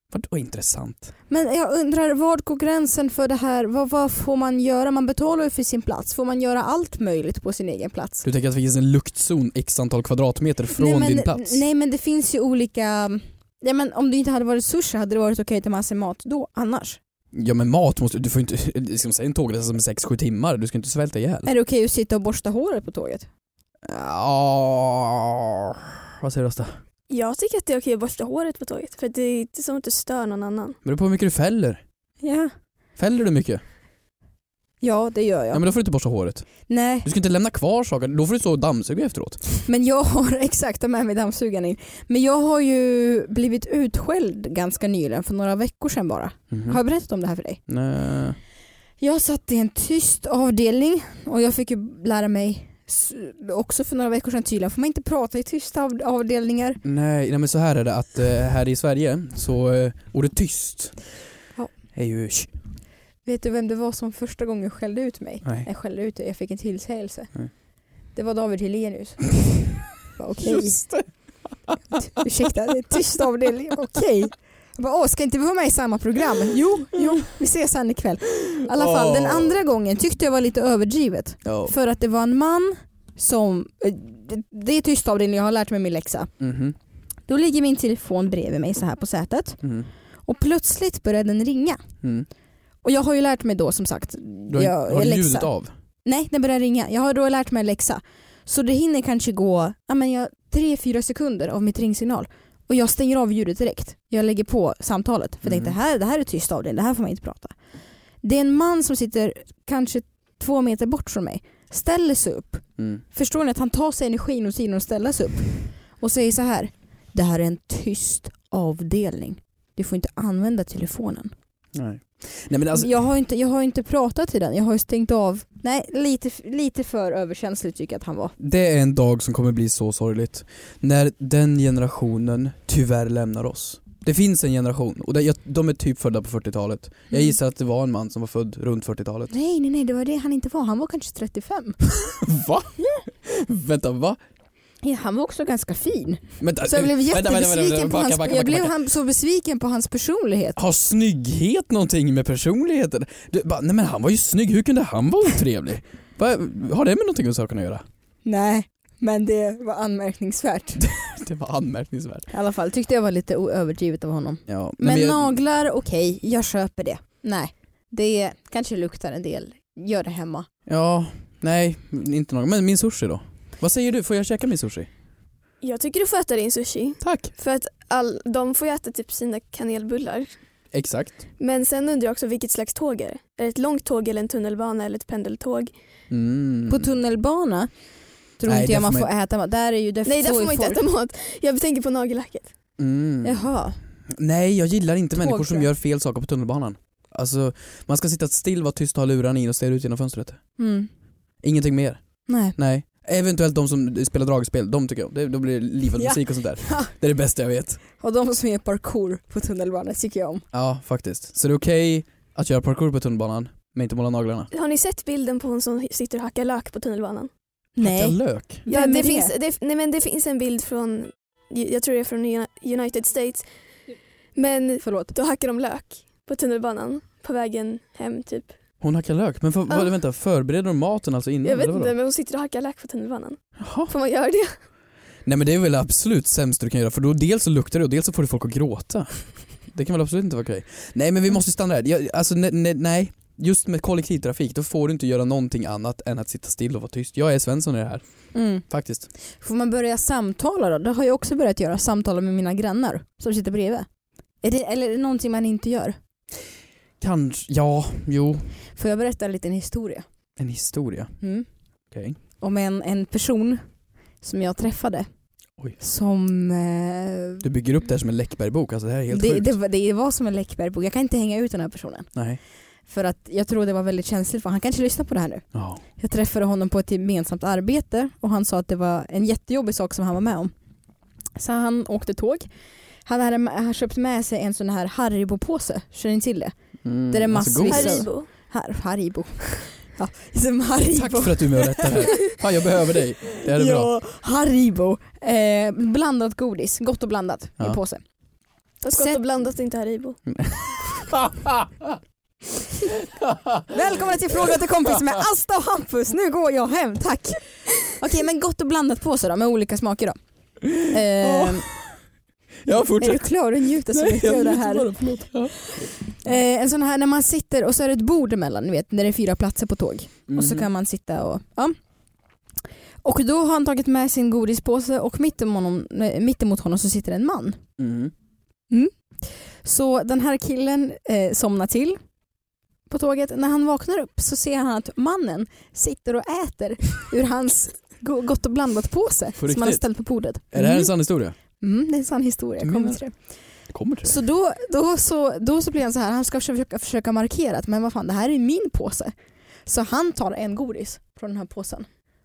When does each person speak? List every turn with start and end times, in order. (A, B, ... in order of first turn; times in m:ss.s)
0:00.1-0:01.1 A
0:01.3-0:08.2 B
0:08.2-0:11.6 A
0:10.8-0:17.0 B
0:17.3-0:21.5 A
0:21.5-0:23.3 B
0:23.8-0:26.7 A
0:27.1-0:30.8 C
0:30.8-0:31.8 A
0:32.2-0:32.5 B
0:33.0-0:33.6 A
0:34.8-0:35.6 B
0:35.5-0:36.5 A
0:36.7-0:37.1 B
0:37.0-0:39.4 A
0:39.7-0:47.6 B
0:46.5-0:46.8 A
0:47.7-0:48.4 A
0:49.0-0:56.8 B
0:56.8-1:01.0 A
1:01.9-1:02.5 A
1:03.2-1:07.3 B
1:08.2-1:10.9 B
1:10.4-1:11.8 A
1:12.2-1:26.3 B
1:17.0-1:17.2 A
1:18.7-1:19.6 A
1:21.4-1:21.7 A
1:26.4-1:26.8 A
1:27.3-1:29.6 B
1:29.6-1:29.9 A
1:30.2-1:31.8 B
1:32.0-1:32.3 A
1:32.8-1:35.5 B
1:34.5-1:35.7 A
1:36.0-1:47.6 B
1:45.4-1:45.8 A
1:48.2-2:01.3 B
1:52.8-1:53.0 A
2:01.7-2:02.9 A
2:02.7-2:08.3 B
2:08.4-2:19.3 A
2:19.3-2:21.8 B
2:22.1-2:24.2 A
2:24.8-2:30.6 B
2:26.4-2:28.7 A
2:30.6-2:37.8 A
2:38.3-2:40.8 B
2:40.8-2:42.3 A
2:42.3-2:50.5 B
2:44.5-2:45.3 A
2:50.7-2:54.9 A
2:55.6-3:00.3 C
2:57.0-2:57.3 A
3:00.7-3:01.2 A
3:01.4-3:05.7 C
3:06.1-3:06.9 A
3:06.7-3:07.7 B
3:08.4-3:10.8 B
3:08.4-3:09.1 A
3:10.0-3:12.5 C
3:12.8-3:13.4 A
3:13.2-3:13.8 B
3:14.1-3:20.4 A
3:15.2-3:15.7 B
3:20.6-3:20.9 B
3:21.4-3:22.0 A
3:22.3-3:22.6 B
3:22.6-3:27.8 A
3:26.0-3:26.9 B
3:28.0-3:30.4 B
3:30.5-3:34.5 A
3:34.5-3:37.3 C
3:37.8-3:39.3 B
3:37.8-3:38.6 A
3:38.7-3:43.5 C
3:44.4-3:48.6 C
3:44.8-3:45.1 B
3:48.8-3:51.9 A
3:51.4-3:54.5 C
3:53.6-3:53.9 A
3:55.3-4:08.0 A
4:08.3-4:08.6 B
4:08.7-4:09.1 A
4:09.3-4:13.9 B
4:14.4-4:16.0 B
4:17.0-4:18.5 A
4:18.8-4:20.0 B
4:20.4-4:21.2 A
4:21.2-4:21.5 B
4:21.9-4:22.2 A
4:22.4-4:23.6 B
4:24.2-4:25.1 B
4:25.8-4:27.4 B
4:27.4-4:29.5 A
4:29.1-4:32.1 B
4:32.2-4:32.4 A
4:32.9-4:35.4 B
4:35.5-4:35.8 A
4:36.0-4:40.5 B
4:41.4-4:42.5 B
4:43.1-4:46.6 B
4:46.8-4:48.1 A
4:47.1-4:52.1 B
4:47.7-4:48.3 C
4:50.9-4:53.9 A
4:53.5-4:58.0 B
4:58.8-5:00.2 C
4:58.9-4:59.2 B
5:00.3-5:02.0 A
5:03.0-5:03.8 A
5:03.7-5:10.2 B
5:10.6-5:11.9 A
5:10.8-5:11.7 B
5:12.6-5:13.3 A
5:13.0-5:21.8 B
5:13.9-5:15.9 A
5:20.3-5:20.7 A
5:23.0-5:27.6 B
5:27.8-5:28.1 A
5:28.7-5:32.0 B
5:32.9-5:40.9 B
5:39.4-5:39.8 A
5:40.5-5:41.4 A
5:41.6-5:43.1 B
5:42.6-5:43.0 A
5:43.7-5:44.2 A
5:44.0-5:49.1 B
5:49.7-5:51.9 B